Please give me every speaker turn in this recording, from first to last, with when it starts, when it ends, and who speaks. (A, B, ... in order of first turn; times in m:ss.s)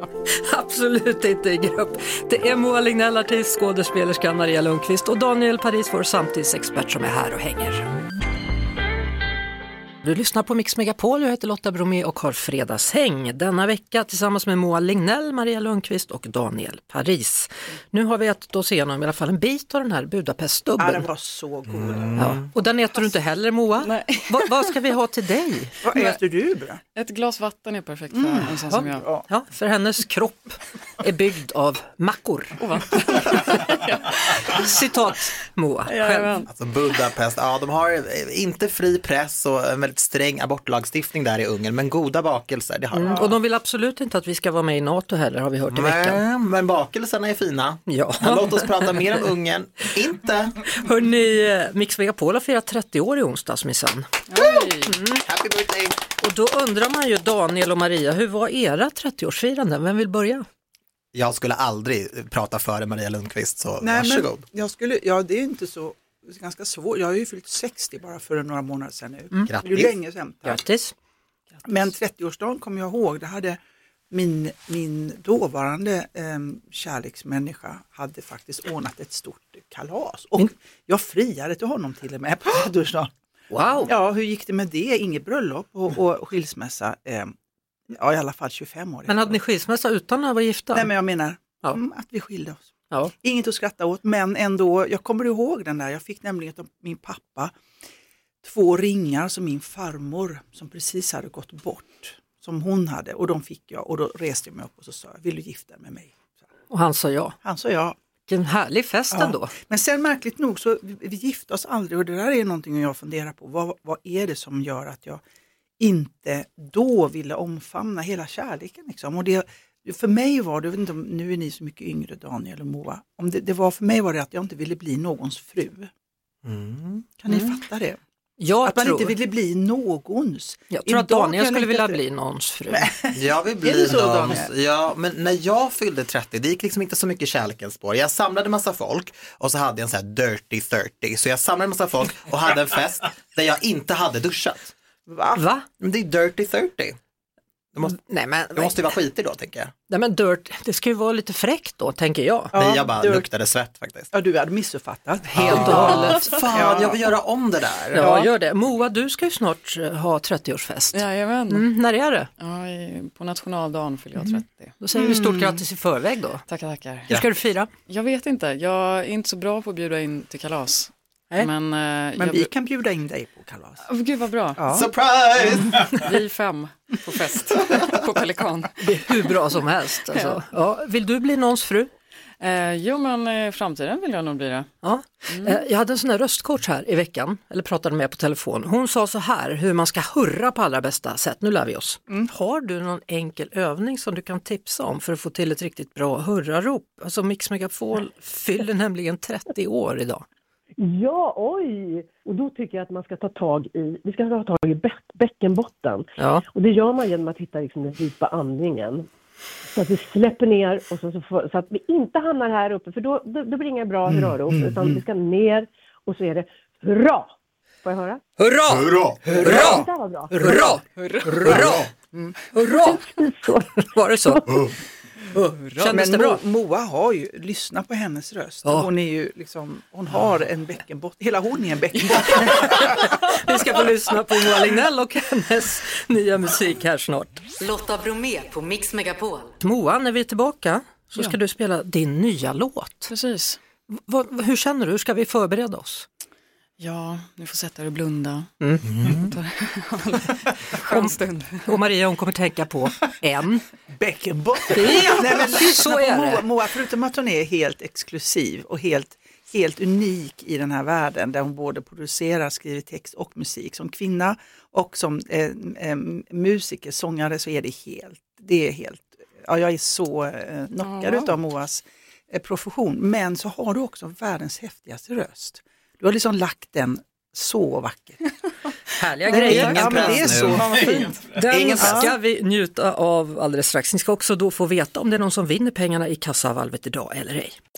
0:00.4-0:07.9 A
0:10.0-0:21.0 A
0:20.8-0:22.3 B
0:21.7-0:22.5 C
0:22.2-0:25.8 A
0:23.8-0:24.7 D
0:25.8-0:26.8 B
0:27.0-0:29.0 D
0:28.1-0:29.2 B
0:28.7-0:32.6 A
0:32.6-0:34.6 D
0:34.5-0:36.4 A
0:35.9-0:36.5 D
0:36.5-0:43.4 C
0:42.9-0:46.2 A
0:45.7-0:50.6 C
0:47.9-0:49.2 A
0:50.7-0:54.1 A
0:54.3-0:55.0 D
0:54.9-0:55.2 A
0:55.2-0:56.0 C
0:56.2-1:00.4 A
1:01.1-1:04.4 C
1:03.8-1:10.6 B
1:09.4-1:09.9 C
1:10.4-1:10.9 A
1:11.6-1:13.6 B
1:14.1-1:23.1 B
1:23.5-1:23.9 A
1:23.8-1:27.3 B
1:27.9-1:29.4 B
1:29.1-1:30.9 A
1:30.7-1:37.5 B
1:38.4-1:46.2 B
1:46.7-1:47.4 A
1:47.4-1:48.0 B
1:48.3-1:49.5 A
1:49.1-1:55.2 B
1:55.8-2:05.9 B
2:06.4-2:07.0 C
2:07.2-2:08.0 B
2:08.4-2:09.1 A
2:08.6-2:12.0 B
2:10.7-2:12.9 A
2:12.7-2:14.5 B
2:13.1-2:24.7 C
2:25.1-2:25.4 B
2:25.3-2:25.6 A
2:25.8-2:27.0 C
2:27.8-2:28.8 A
2:28.5-2:29.7 C
2:29.9-2:32.5 A
2:32.5-2:33.3 B
2:32.5-2:34.1 C
2:34.1-2:37.0 B
2:35.3-2:36.3 A
2:35.3-2:38.2 C
2:37.9-2:42.3 A
2:38.0-2:38.3 B
2:40.9-2:41.7 D
2:42.4-2:44.7 D
2:44.2-2:46.4 A
2:44.9-2:45.6 B
2:46.5-2:47.1 D
2:47.1-2:47.7 A
2:47.9-2:52.5 D
2:52.2-2:53.8 B
2:53.8-2:54.6 D
2:54.6-2:54.9 B
2:54.7-2:56.1 C
2:55.6-2:55.9 B
2:56.0-2:58.8 D
2:57.5-2:57.8 C
2:58.8-3:01.9 A
3:00.1-3:00.4 D
3:02.4-3:04.7 D
3:04.8-3:20.2 A
3:05.3-3:05.6 D
3:20.8-3:29.1 E
3:26.2-3:26.4 A
3:29.7-3:38.2 E
3:34.0-3:35.0 B
3:38.4-3:41.9 A
3:38.7-3:39.2 C
3:39.2-3:40.8 B
3:39.4-3:40.6 E
3:41.0-3:41.4 D
3:41.4-3:42.3 B
3:42.5-3:43.0 A
3:42.7-3:44.7 E
3:43.8-3:44.7 A
3:45.3-3:46.4 A
3:45.8-3:53.4 B
3:48.6-3:48.9 A
3:52.6-3:57.4 A
3:57.6-3:59.6 F
3:59.6-4:03.1 A
4:03.1-4:03.6 D
4:03.9-4:06.0 A
4:06.8-4:11.8 D
4:08.6-4:08.8 A
4:08.9-4:09.3 C
4:10.8-4:13.6 A
4:13.9-4:38.3 B
4:14.7-4:16.4 A
4:30.8-4:31.4 D
4:39.0-4:40.7 A
4:39.2-4:42.1 B
4:39.3-4:42.1 C
4:41.3-4:47.6 A